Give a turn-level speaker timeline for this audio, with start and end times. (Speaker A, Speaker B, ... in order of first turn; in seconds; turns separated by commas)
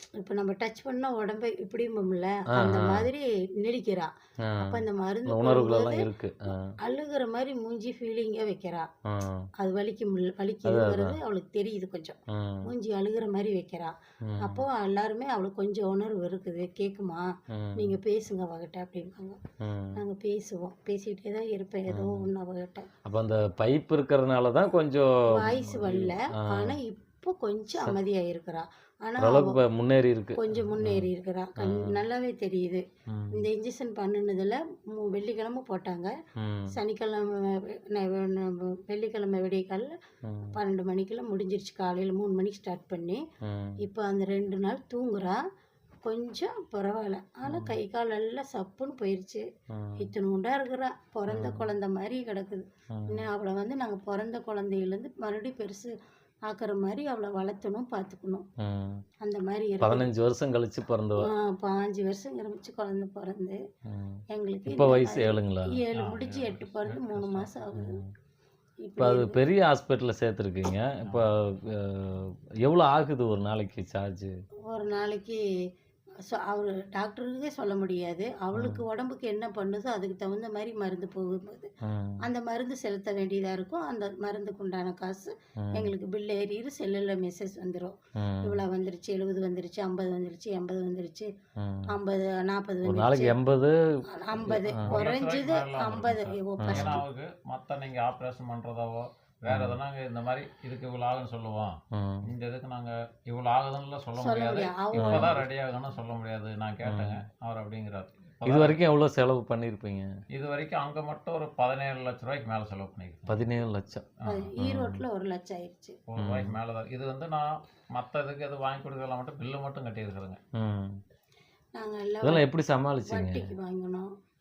Speaker A: 0.2-6.1, Speaker B: 2.5-3.1, Speaker B: 4.4-6.7, Speaker A: 6.8-8.9, Speaker B: 9.1-9.5, Speaker A: 9.6-19.4, Speaker B: 10.7-11.2, Speaker B: 12.3-12.7, Speaker B: 14.3-14.7, Speaker B: 17.5-18.0, Speaker B: 19.6-20.0, Speaker A: 20.0-22.9, Speaker B: 21.9-22.3, Speaker B: 23.1-26.8, Speaker A: 25.3-29.6, Speaker B: 29.2-32.0, Speaker A: 30.4-36.1, Speaker B: 33.1-33.5, Speaker B: 36.4-36.7, Speaker A: 36.7-39.9, Speaker B: 40.2-40.6, Speaker A: 40.5-43.2, Speaker B: 43.4-43.8, Speaker A: 43.8-45.4, Speaker A: 46.0-49.5, Speaker B: 47.5-47.7, Speaker B: 49.7-50.0, Speaker A: 50.0-55.9, Speaker B: 51.3-51.7, Speaker B: 52.9-53.2, Speaker A: 56.5-58.5, Speaker B: 58.6-59.0, Speaker A: 59.2-60.1, Speaker B: 59.8-61.3, Speaker A: 61.2-63.6, Speaker B: 63.9-65.8, Speaker A: 64.3-68.0, Speaker C: 66.0-67.5, Speaker B: 67.8-68.1, Speaker A: 68.8-69.4, Speaker B: 69.0-74.3, Speaker C: 71.0-71.3, Speaker A: 74.7-75.4, Speaker A: 76.3-81.7, Speaker B: 78.5-78.8, Speaker B: 81.8-82.2, Speaker A: 82.2-91.3, Speaker B: 85.6-85.9, Speaker B: 88.2-88.6, Speaker B: 91.6-91.9, Speaker A: 91.9-93.4, Speaker B: 92.8-93.8, Speaker A: 94.1-97.0, Speaker B: 94.3-95.0, Speaker C: 94.8-108.8, Speaker B: 96.6-97.0, Speaker B: 99.5-99.8, Speaker B: 101.9-102.3, Speaker A: 104.2-105.5, Speaker B: 105.0-105.4, Speaker B: 106.8-107.2, Speaker B: 108.5-110.1, Speaker C: 110.3-113.4, Speaker B: 113.3-114.1, Speaker C: 114.2-114.5, Speaker A: 114.2-116.0, Speaker B: 114.6-115.0, Speaker C: 116.1-120.4, Speaker B: 116.2-116.5, Speaker B: 120.5-121.0, Speaker A: 121.8-122.5, Speaker B: 122.2-123.5, Speaker A: 123.1-124.1